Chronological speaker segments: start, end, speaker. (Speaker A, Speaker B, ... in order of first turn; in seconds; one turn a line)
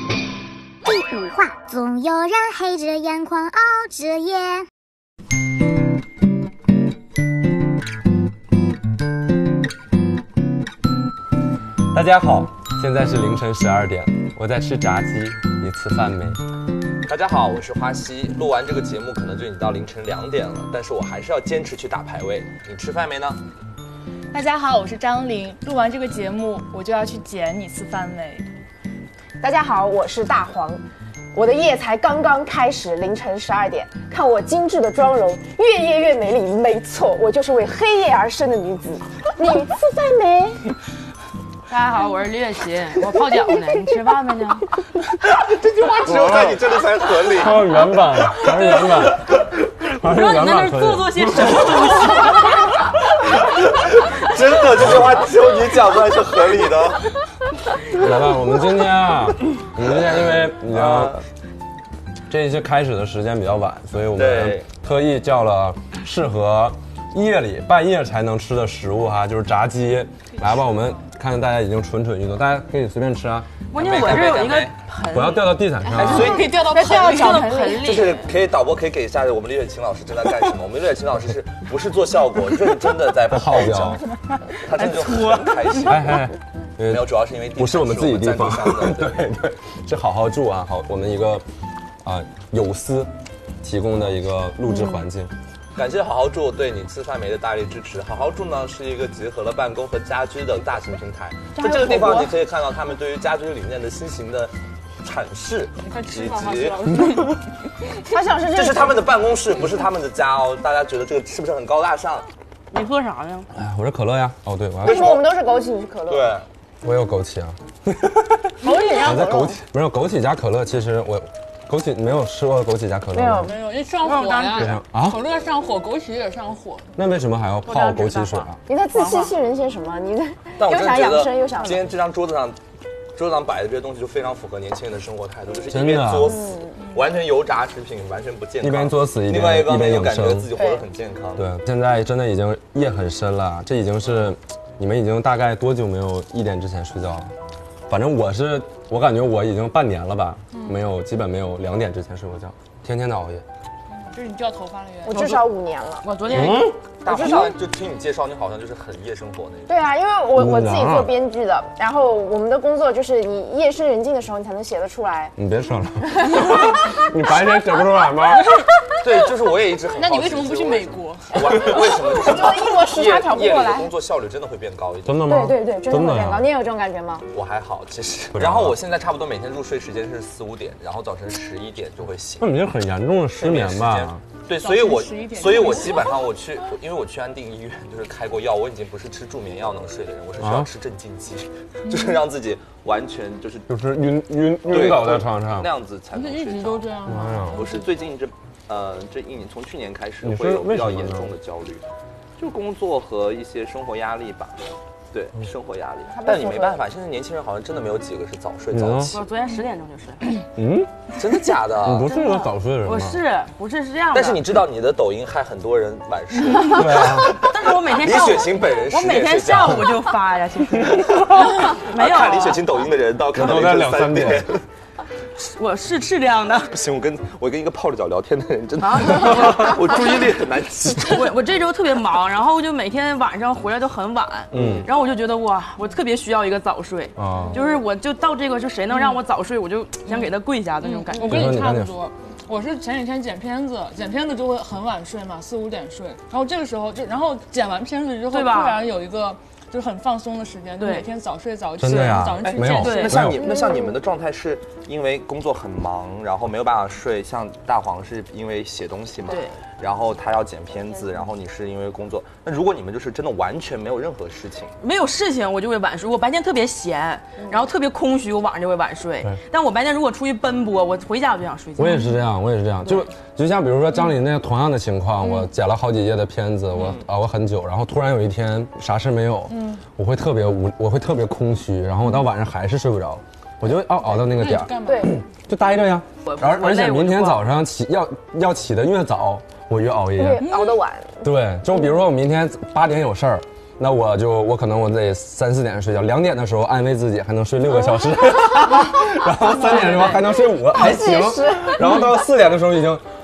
Speaker A: 0.8-4.7
Speaker B: 11.9-16.4
Speaker C: 17.1-23.4
Speaker D: 24.3-28.4
Speaker E: 29.4-30.8
Speaker E: 31.3-40.7
Speaker F: 41.7-44.7
Speaker C: 45.3-47.6
Speaker B: 46.1-46.6
Speaker B: 47.2-51.8
Speaker C: 48.4-49.4
Speaker F: 49.9-52.8
Speaker C: 53.4-57.1
Speaker B: 54.8-55.2
Speaker B: 57.9-61.2
Speaker C: 60.0-61.2
Speaker B: 62.3-73.5
Speaker C: 64.1-64.7
Speaker F: 73.7-78.3
Speaker C: 73.7-74.7
Speaker B: 75.1-76.4
Speaker C: 75.9-76.5
Speaker D: 76.0-77.6
Speaker E: 76.1-77.8
Speaker C: 77.8-86.2
Speaker B: 83.3-84.0
Speaker F: 84.8-85.9
Speaker B: 85.8-91.4
Speaker C: 86.8-89.2
Speaker B: 92.0-93.1
Speaker B: 93.6-95.3
Speaker C: 95.7-107.0
Speaker E: 101.5-102.3
Speaker D: 105.8-107.4
Speaker E: 108.1-109.0
Speaker C: 108.5-112.3
Speaker F: 112.7-113.5
Speaker B: 113.5-115.2
Speaker C: 114.8-115.2
Speaker E: 114.8-116.3
Speaker C: 116.1-116.5
Speaker B: 116.8-123.5
Speaker E: 118.6-119.6
Speaker D: 118.7-119.2
Speaker E: 123.1-123.5
Speaker D: 123.4-126.9
Speaker F: 124.0-124.7
Speaker B: 124.6-125.2
Speaker B: 127.0-128.6
Speaker F: 127.7-129.3
Speaker E: 128.7-131.8
Speaker C: 130.6-132.6
Speaker C: 133.2-141.4
Speaker B: 135.7-136.3
Speaker E: 136.2-136.8
Speaker B: 138.6-140.6
Speaker E: 140.6-140.8
Speaker B: 141.3-147.3
Speaker B: 147.9-153.4
Speaker D: 150.5-150.8
Speaker D: 154.1-155.4
Speaker E: 155.0-156.1
Speaker F: 156.0-157.3
Speaker B: 156.3-156.7
Speaker C: 157.0-159.7
Speaker E: 157.1-157.4
Speaker E: 159.7-165.3
Speaker B: 160.3-161.1
Speaker B: 165.4-168.5
Speaker E: 166.2-167.1
Speaker C: 169.0-175.3
Speaker D: 169.9-171.7
Speaker E: 171.5-173.9
Speaker B: 175.0-176.5
Speaker E: 175.2-177.2
Speaker C: 177.3-182.5
Speaker B: 178.3-178.8
Speaker B: 182.4-184.2
Speaker C: 183.3-193.7
Speaker D: 184.6-186.1
Speaker B: 190.4-190.7
Speaker B: 193.7-195.7
Speaker C: 194.7-196.9
Speaker D: 196.1-197.9
Speaker B: 197.1-197.6
Speaker C: 197.5-201.8
Speaker B: 200.2-201.3
Speaker C: 202.4-204.6
Speaker C: 205.1-209.2
Speaker E: 206.1-206.8
Speaker B: 208.7-209.2
Speaker F: 209.1-210.4
Speaker B: 210.6-210.9
Speaker C: 211.2-212.1
Speaker B: 211.8-213.2
Speaker F: 212.0-214.5
Speaker C: 214.1-220.0
Speaker B: 216.7-217.4
Speaker F: 216.8-222.6
Speaker C: 221.1-224.6
Speaker B: 223.3-224.5
Speaker F: 225.4-226.7
Speaker C: 226.7-231.4
Speaker F: 228.8-230.0
Speaker F: 231.0-241.5
Speaker C: 234.5-234.9
Speaker B: 234.5-234.9
Speaker B: 237.2-237.6
Speaker D: 240.8-253.2
Speaker B: 241.2-242.0
Speaker F: 248.3-248.8
Speaker F: 250.8-251.1
Speaker B: 251.8-253.4
Speaker C: 252.4-264.7
Speaker F: 252.7-253.2
Speaker E: 253.4-253.9
Speaker F: 259.3-259.6
Speaker F: 264.8-272.1
Speaker B: 271.8-290.5
Speaker C: 276.8-277.0
Speaker D: 279.5-279.8
Speaker D: 284.1-285.2
Speaker E: 284.8-285.1
Speaker F: 286.2-287.4
Speaker E: 290.2-291.2
Speaker D: 290.4-290.8
Speaker B: 291.2-303.0
Speaker D: 299.6-300.2
Speaker E: 300.6-302.2